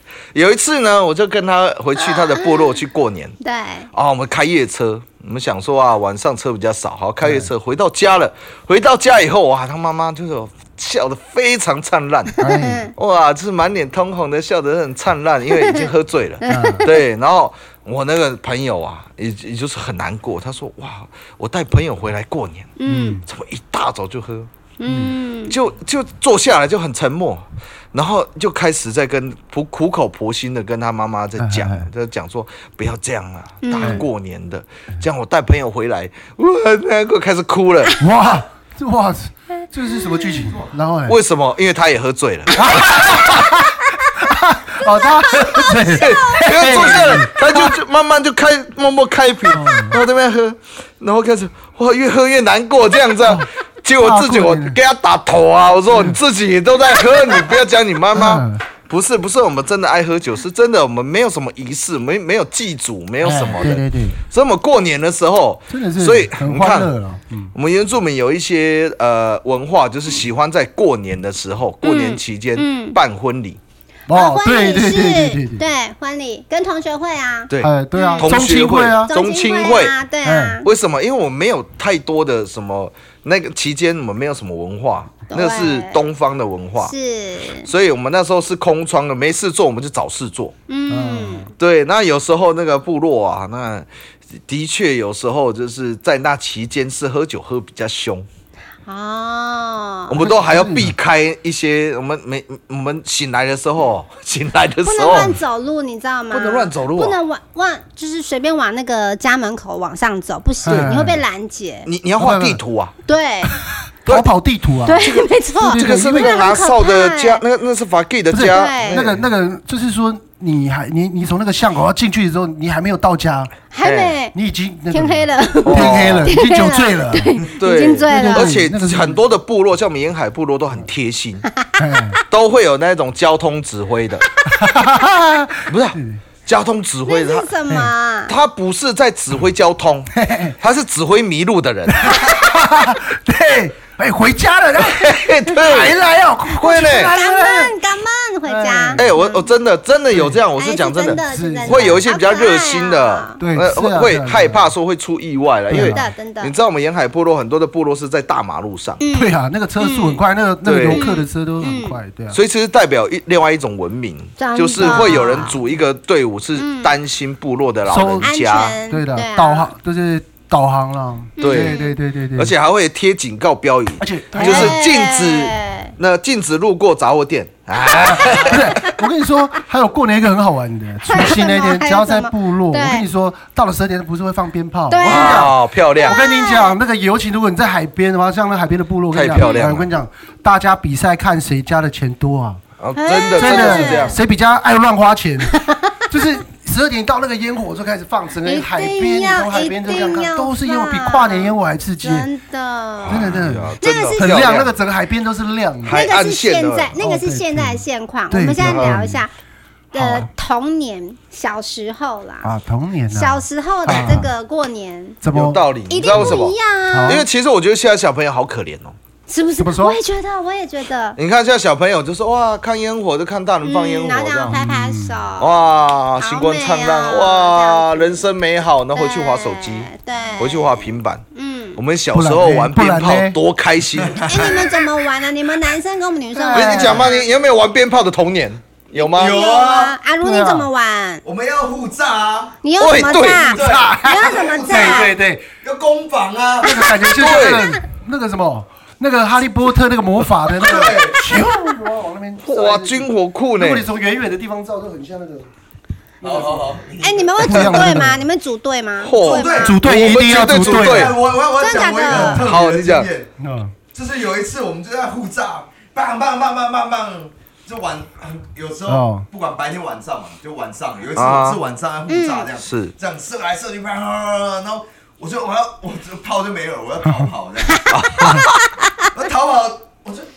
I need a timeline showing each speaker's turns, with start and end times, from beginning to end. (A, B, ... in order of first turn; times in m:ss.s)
0:00.3-0:03.4 A
0:02.1-0:02.4 B
0:03.4-0:03.9 B
0:03.9-0:12.4 A
0:07.2-0:07.5 C
0:12.4-0:12.9 C
0:12.4-0:12.9 B
0:13.0-0:22.7 A
0:15.5-0:15.9 B
0:16.4-0:16.8 B
0:16.4-0:16.9 C
0:22.8-0:23.2 B
0:22.9-0:23.3 C
0:23.3-0:24.5 A
0:24.8-0:25.6 B
0:24.9-0:25.2 C
0:25.5-0:38.0 A
0:31.4-0:31.9 C
0:33.6-0:34.0 B
0:38.0-0:41.2 C
0:40.1-0:40.5 B
0:41.1-0:43.5 A
0:42.5-0:47.7 C
0:44.9-0:47.2 B
0:45.9-1:06.9 A
0:49.5-0:50.0 C
0:54.0-0:54.8 C
0:55.9-0:56.2 C
0:58.1-0:58.6 C
1:03.2-1:04.2 C
1:05.7-1:07.5 C
1:07.5-1:13.6 A
1:11.8-1:13.0 B
1:14.1-1:15.7 C
1:14.1-1:18.3 B
1:17.5-1:20.0 A
1:17.6-1:19.1 C
1:19.1-1:20.7 B
1:20.2-1:20.6 C
1:20.6-1:26.9 A
1:25.3-1:26.0 B
1:26.8-1:27.7 B
1:27.6-1:30.5 A
1:30.7-1:31.5 B
1:30.9-1:31.5 C
1:31.6-1:33.9 A
1:34.5-1:38.3 A
1:38.9-1:40.1 B
1:40.1-1:45.4 A
1:40.1-1:41.0 C
1:44.8-1:51.9 B
1:46.3-1:47.2 A
1:50.6-1:51.2 C
1:51.8-1:52.9 A
1:52.2-1:52.6 C
1:53.1-1:53.6 B
1:53.6-1:56.4 C
1:54.9-1:57.4 B
1:55.7-1:59.2 A
1:58.3-2:03.5 C
1:58.5-1:59.1 B
2:03.7-2:04.4 B
2:03.8-2:04.2 A
2:04.3-2:07.4 C
2:04.9-2:08.6 B
2:05.6-2:06.3 A
2:07.6-2:11.5 A
2:08.0-2:09.2 C
2:11.8-2:12.2 C
2:12.3-2:14.3 A
2:14.5-2:16.2 C
2:15.7-2:17.5 A
2:17.1-2:18.3 B
2:18.3-2:22.4 A
2:20.1-2:20.6 C
2:21.9-2:27.7 C
2:24.8-2:26.0 A
2:26.6-2:27.1 A
2:26.7-2:29.5 B
2:28.5-2:29.0 C
2:29.0-2:39.0 A
2:30.1-2:30.4 C
2:30.6-2:33.4 B
2:31.1-2:32.0 C
2:33.4-2:34.7 C
2:35.7-2:36.0 C
2:35.8-2:36.5 B
2:39.0-2:40.2 B
2:39.1-2:42.4 C
2:40.6-2:41.1 A
2:40.9-2:42.0 B
2:42.3-2:48.8 A
2:44.4-2:45.6 B
2:44.8-2:45.2 C
2:46.6-2:47.0 B
2:47.9-2:52.5 C
2:48.2-2:49.7 B
2:51.4-2:52.0 B
2:51.4-2:51.8 A
2:52.4-2:58.8 A
2:54.0-2:54.8 C
2:54.4-2:55.9 B
2:57.9-2:58.9 B
2:58.2-3:12.6 C
3:01.1-3:03.0 B
3:04.9-3:06.8 B
3:05.0-3:06.2 A
3:09.1-3:09.9 A
3:09.4-3:09.6 B
3:12.8-3:14.2 A
3:13.0-3:14.2 B
3:13.3-3:22.3 C
3:15.5-3:15.9 B
3:18.4-3:24.5 B
3:23.0-3:24.7 A
3:23.0-3:26.1 C
3:25.8-3:27.0 A
3:25.9-3:29.3 B
3:27.0-3:29.2 C
3:28.6-3:29.0 A
3:29.9-3:32.5 B
3:29.9-3:30.3 C
3:32.4-3:34.3 C
3:33.1-3:35.2 B
3:33.9-3:34.2 A
3:35.2-3:37.2 C
3:35.3-3:39.0 A
3:35.9-3:37.2 B
3:39.3-3:41.2 B
3:39.6-3:40.0 C
3:41.2-3:44.6 A
3:43.6-3:45.6 B
3:44.5-3:45.2 C
3:45.4-3:51.2 A
3:46.2-3:48.2 B
3:49.0-3:51.8 B
3:51.8-3:54.4 A
3:52.1-3:53.4 C
3:54.0-3:54.8 D
3:54.3-3:57.2 B
3:56.3-3:57.1 C
3:56.5-3:59.4 A
3:59.0-4:01.2 B
3:59.2-4:00.0 D
4:00.2-4:00.7 C
4:01.2-4:02.6 D
4:02.6-4:05.1 B
4:02.8-4:03.8 A
4:03.2-4:06.9 D
4:03.6-4:05.4 C
4:06.6-4:15.5 C
4:07.1-4:07.7 A
4:10.5-4:11.3 D
4:12.4-4:13.9 A
4:16.2-4:16.8 C
4:16.2-4:18.0 D
4:17.0-4:19.8 B
4:17.4-4:18.3 C
4:19.0-4:21.2 A
4:19.2-4:19.8 D
4:19.6-4:21.2 C
4:20.4-4:23.3 D
4:21.6-4:22.4 B
4:22.1-4:23.1 A
4:23.4-4:23.7 C
4:23.9-4:38.1 D
4:28.9-4:29.3 C
4:31.2-4:31.6 A
4:32.1-4:32.5 B
4:32.6-4:32.9 A
4:37.0-4:37.3 C
4:37.7-4:39.0 B
4:37.9-4:38.5 A
4:38.2-4:38.5 C
4:39.1-4:40.3 D